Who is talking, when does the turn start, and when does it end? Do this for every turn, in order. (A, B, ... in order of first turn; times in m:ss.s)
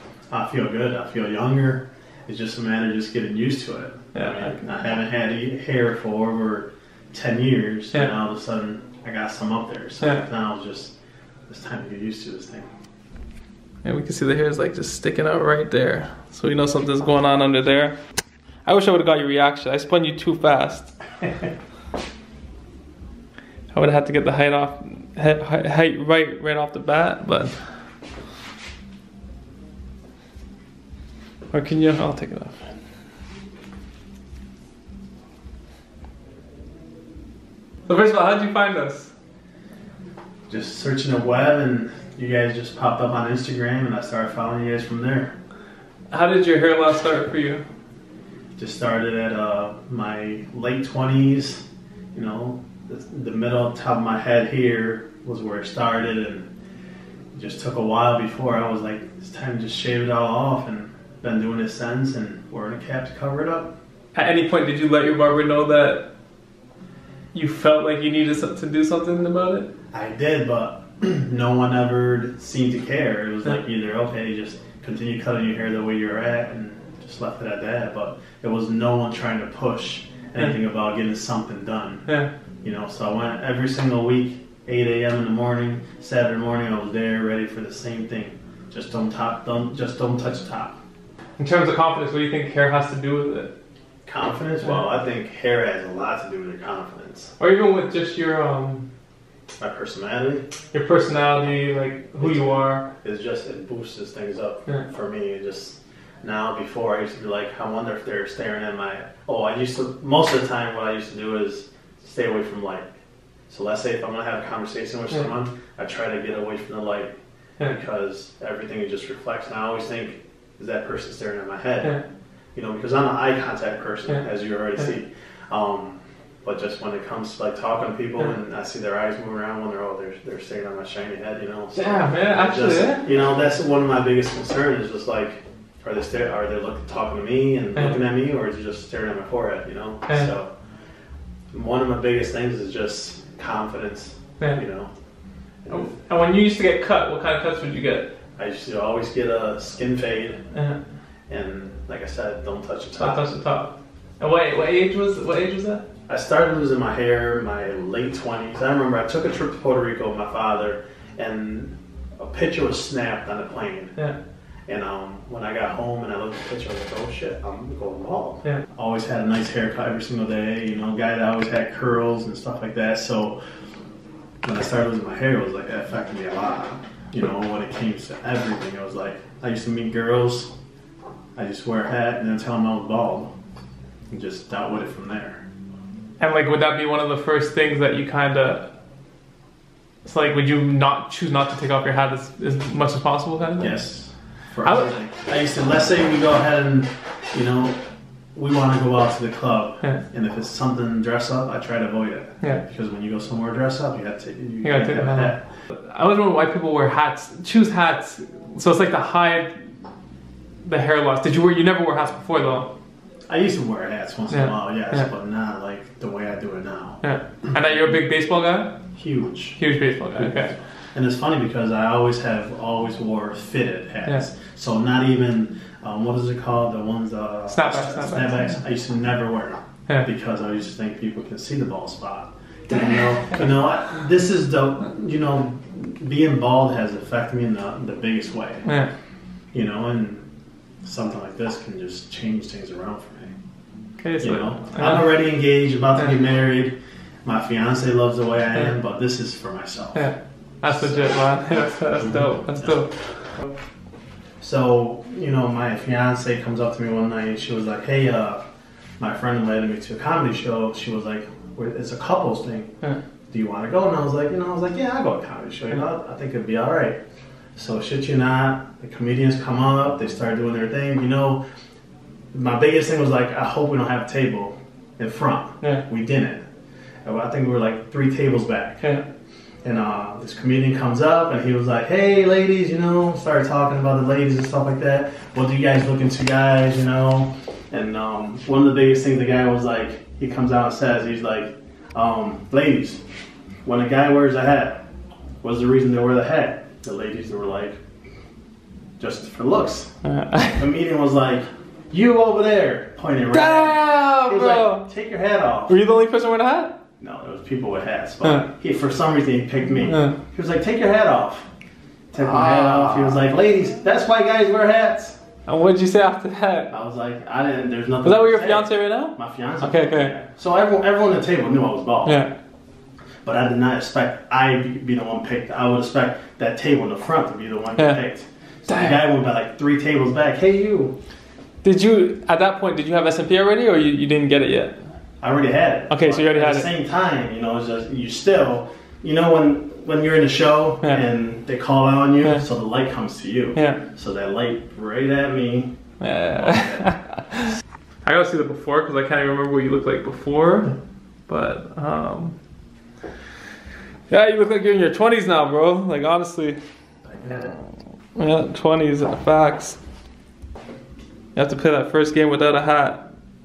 0:00.3-0:11.0 A
0:04.1-0:04.6 B
0:11.5-0:12.7 A
0:13.8-0:18.0 B
0:18.6-0:20.9 B
0:23.7-0:27.6 B
0:31.5-0:32.6 B
0:37.9-0:39.1 B
0:40.5-0:45.3 A
0:46.1-0:47.6 B
0:48.6-0:56.5 A
0:57.3-1:03.7 A
1:04.1-1:06.1 B
1:07.3-1:09.7 B
1:09.9-1:22.1 A
1:22.6-1:30.8 A
1:31.4-1:33.5 B
1:34.1-1:37.3 A
1:37.4-1:38.9 B
1:39.6-1:40.5 A
1:40.7-1:42.9 B
1:42.2-1:52.9 A
1:53.5-2:02.0 A
2:02.6-2:20.5 A
2:11.7-2:13.0 B
2:21.5-2:24.9 A
2:25.7-2:28.1 B
2:28.4-2:30.4 A
2:30.5-2:30.8 B
2:31.3-2:33.3 A
2:33.0-2:35.8 B
2:36.1-2:44.0 A
2:44.7-2:53.4 A
2:54.4-3:00.5 A
3:01.4-3:03.3 A
3:04.1-3:05.4 A
3:06.2-3:08.7 B
3:10.0-3:13.8 B
3:13.6-3:17.8 A
3:14.6-3:15.0 B
3:18.4-3:25.4 A
3:24.6-3:29.6 B
3:30.6-3:32.7 B
3:33.3-3:37.0 A
3:34.3-3:35.1 B
3:37.0-3:38.8 B
3:39.0-3:58.7 A
3:39.6-3:40.6 B
3:47.5-3:48.6 B
3:58.6-3:58.9 B
3:59.5-4:00.2 A
4:00.8-4:03.3 A
4:04.0-4:05.2 B
4:04.2-4:10.1 A
4:10.0-4:12.9 B
4:10.6-4:11.2 A
4:14.4-4:18.4 A
4:19.0-4:22.7 A
4:23.3-4:27.0 A
4:27.6-4:31.4 A
4:32.3-4:36.4 A
4:37.0-4:38.9 A
4:39.6-4:53.0 A
4:53.6-4:54.8 A
4:55.4-4:57.8 A
4:59.0-4:59.9 A
5:00.0-5:00.6 B
5:00.6-5:05.8 A
5:03.3-5:04.9 B
5:05.7-5:06.8 B
5:07.0-5:11.5 A
5:09.9-5:10.2 B
5:12.1-5:15.2 A
5:12.2-5:13.2 B
5:15.5-5:16.7 B
5:16.7-5:22.3 A
5:18.0-5:20.2 B
5:22.0-5:22.3 B
5:23.2-5:31.0 A
5:28.7-5:29.0 B
5:31.6-5:34.7 B
5:35.2-5:45.7 A
5:35.9-5:36.7 B
5:43.6-5:43.8 B
5:46.0-5:47.5 B
5:46.3-5:47.0 A
5:48.0-5:50.7 B
5:51.3-5:52.4 B
5:54.1-5:56.6 B
5:57.1-5:57.6 A
5:58.2-5:59.8 B
6:01.4-6:03.1 B